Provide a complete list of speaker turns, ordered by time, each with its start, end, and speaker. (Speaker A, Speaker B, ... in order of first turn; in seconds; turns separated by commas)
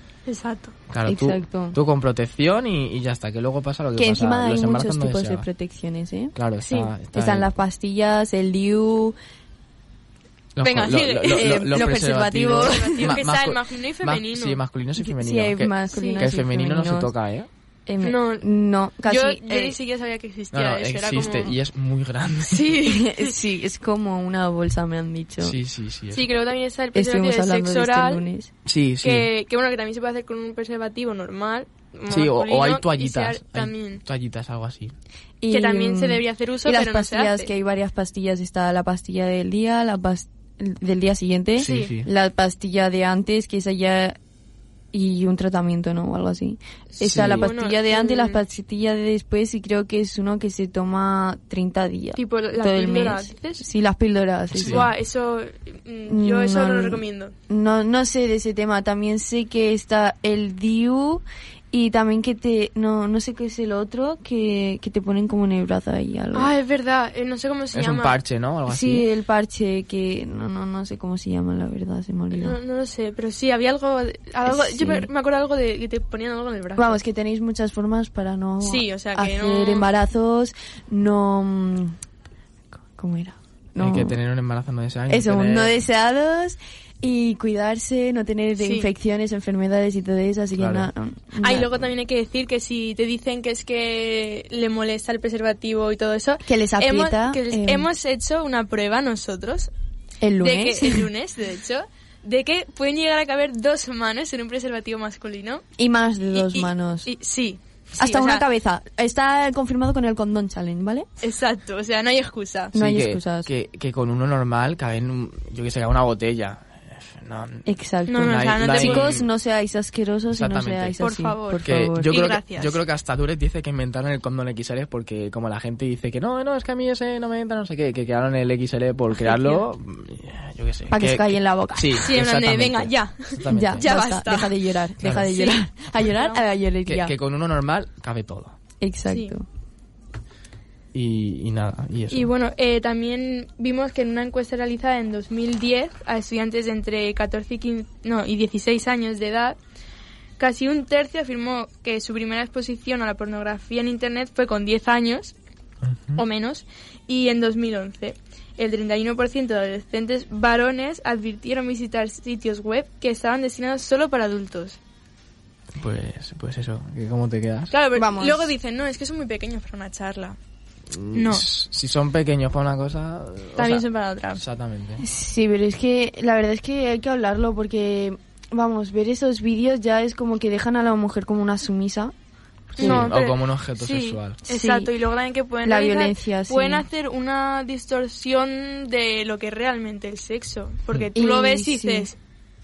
Speaker A: 0.3-0.8, Speaker B: 0.9-5.5, Speaker C: 1.1-1.8, Speaker C: 4.0-6.3, Speaker B: 6.3-7.5, Speaker A: 6.6-6.9, Speaker C: 7.1-9.2, Speaker B: 10.6-17.5, Speaker A: 10.6-11.9, Speaker C: 11.2-13.2, Speaker A: 12.6-14.6, Speaker C: 15.0-17.1, Speaker A: 15.9-16.3, Speaker C: 17.9-19.8, Speaker A: 18.0-18.5, Speaker A: 19.0-21.6, Speaker B: 20.5-22.8, Speaker A: 22.5-23.4, Speaker C: 22.8-25.6, Speaker B: 25.4-26.3, Speaker A: 26.1-28.3, Speaker C: 26.9-28.5, Speaker B: 28.7-29.3, Speaker A: 29.0-34.0, Speaker B: 32.1-34.9, Speaker C: 35.4-44.2, Speaker A: 35.5-37.5, Speaker A: 41.6-42.0, Speaker B: 41.6-42.1, Speaker C: 44.9-54.9, Speaker B: 47.0-47.5, Speaker A: 47.1-48.4, Speaker A: 52.2-53.6, Speaker B: 54.5-54.9, Speaker A: 54.5-57.3, Speaker C: 56.1-66.5, Speaker A: 66.3-68.2, Speaker B: 67.7-69.0, Speaker C: 68.7-72.6, Speaker A: 72.3-77.0, Speaker C: 74.5-75.1, Speaker C: 76.8-82.0, Speaker A: 78.6-79.9, Speaker C: 83.0-84.2, Speaker B: 83.8-85.8, Speaker C: 85.1-91.9, Speaker A: 88.6-88.9, Speaker B: 90.6-90.9, Speaker A: 91.4-99.7, Speaker C: 96.5-97.9, Speaker C: 100.2-101.1, Speaker A: 100.4-105.6, Speaker C: 105.8-107.1, Speaker A: 106.3-108.5, Speaker C: 108.0-111.1, Speaker A: 111.2-112.7, Speaker C: 112.7-113.5, Speaker B: 112.7-117.7, Speaker C: 117.7-122.3, Speaker A: 118.1-119.2, Speaker B: 118.2-119.3, Speaker B: 120.3-121.0, Speaker A: 121.0-122.8, Speaker B: 121.5-134.2, Speaker A: 129.2-129.6, Speaker C: 130.9-132.1, Speaker A: 132.0-136.4, Speaker C: 133.5-137.2, Speaker B: 135.0-135.4, Speaker B: 136.9-138.6, Speaker C: 138.8-139.4, Speaker B: 140.9-142.3, Speaker A: 142.1-149.6, Speaker A: 150.4-155.3, Speaker B: 155.8-156.2, Speaker A: 156.2-164.8, Speaker B: 165.8-167.7, Speaker A: 167.7-170.4, Speaker C: 167.9-168.5, Speaker B: 170.9-175.0, Speaker A: 171.1-171.5, Speaker A: 173.6-174.4, Speaker C: 175.0-182.1, Speaker C: 182.7-183.1, Speaker A: 182.8-192.2, Speaker B: 182.8-184.4, Speaker C: 184.5-184.9, Speaker C: 185.6-186.9, Speaker C: 191.1-192.1